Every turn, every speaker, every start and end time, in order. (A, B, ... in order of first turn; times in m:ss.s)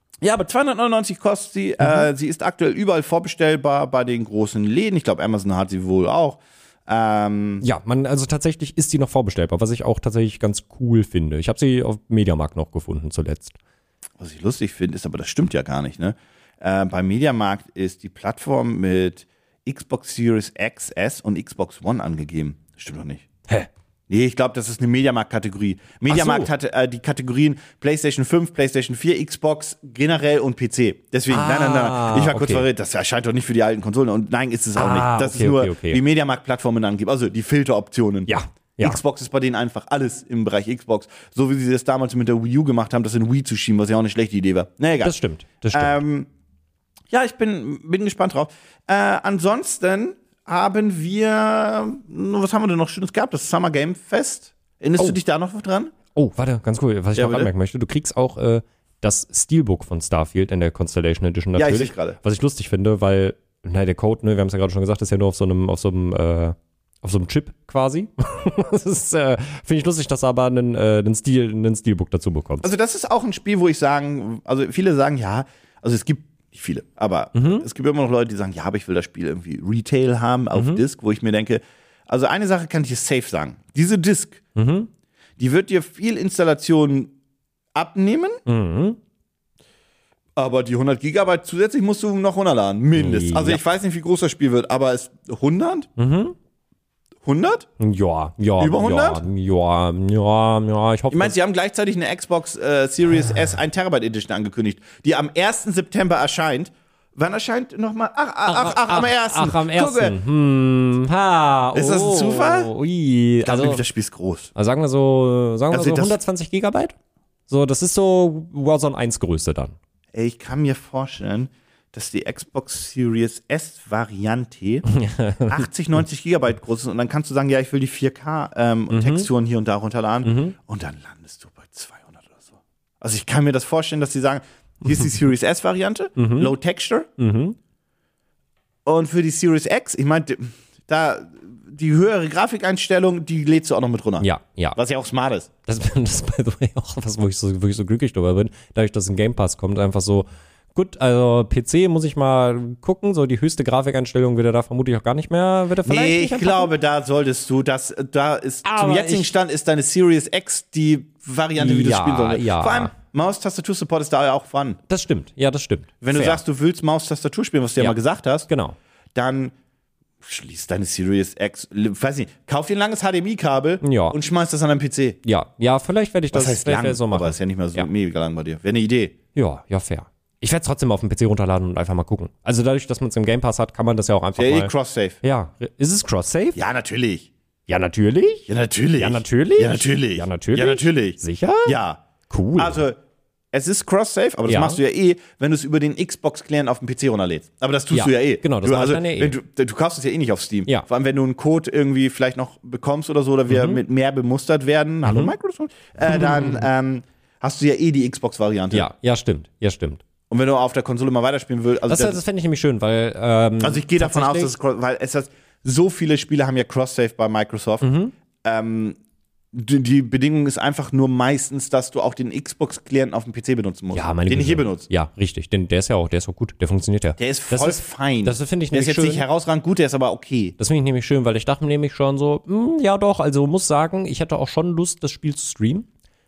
0:00.2-0:07.6 A
0:01.8-0:02.0 B
0:07.6-0:13.6 B
0:14.2-0:23.3 A
0:24.1-0:45.2 A
0:26.1-0:26.5 B
0:31.3-0:32.7 B
0:34.8-0:36.0 B
0:38.3-0:39.0 B
0:45.0-0:46.0 B
0:45.7-0:46.3 A
0:47.1-0:56.0 A
0:56.1-1:12.7 B
0:57.1-0:57.5 A
1:01.6-1:02.2 A
1:12.6-1:24.4 A
1:17.4-1:17.7 B
1:20.6-1:20.8 B
1:24.6-1:24.9 B
1:25.4-1:27.1 A
1:27.7-1:28.4 A
1:28.4-1:29.0 B
1:30.4-1:35.9 A
1:33.0-1:33.6 B
1:36.0-1:36.4 B
1:37.2-1:37.7 A
1:37.8-1:41.4 B
1:38.6-1:39.2 A
1:41.1-1:50.2 A
1:48.4-1:53.8 B
1:51.7-1:52.7 A
1:53.4-1:54.5 A
1:54.6-1:57.0 B
1:55.7-1:56.2 A
1:57.5-1:59.8 B
2:00.1-2:04.9 A
2:04.9-2:05.7 B
2:05.5-2:17.1 A
2:08.9-2:09.3 B
2:10.2-2:10.6 B
2:16.2-2:16.5 B
2:17.2-2:17.6 B
2:18.9-2:25.5 A
2:24.2-2:24.8 B
2:25.7-2:36.7 B
2:35.8-2:44.8 A
2:38.6-2:39.3 B
2:41.6-2:42.9 B
2:44.9-2:46.4 B
2:46.0-2:48.5 A
2:48.5-2:48.8 B
2:49.1-2:49.5 A
2:50.2-2:55.2 A
2:53.8-2:54.2 B
2:55.2-2:57.9 B
2:56.3-2:59.2 A
2:59.3-3:04.7 B
3:04.4-3:05.2 A
3:05.2-3:06.6 B
3:06.6-3:07.3 A
3:07.7-3:11.8 B
3:08.5-3:12.0 A
3:12.3-3:12.8 B
3:12.6-3:13.0 A
3:13.5-3:28.9 A
3:14.5-3:14.8 B
3:17.9-3:19.4 B
3:23.5-3:23.8 B
3:25.0-3:25.3 B
3:26.1-3:26.6 B
3:28.7-3:30.0 B
3:30.3-3:32.2 A
3:31.9-3:34.5 B
3:33.6-3:37.9 A
3:37.8-3:38.1 B
3:38.4-3:39.0 A
3:39.5-3:44.9 A
3:43.9-3:49.2 B
3:47.2-3:50.6 A
3:50.6-3:55.9 B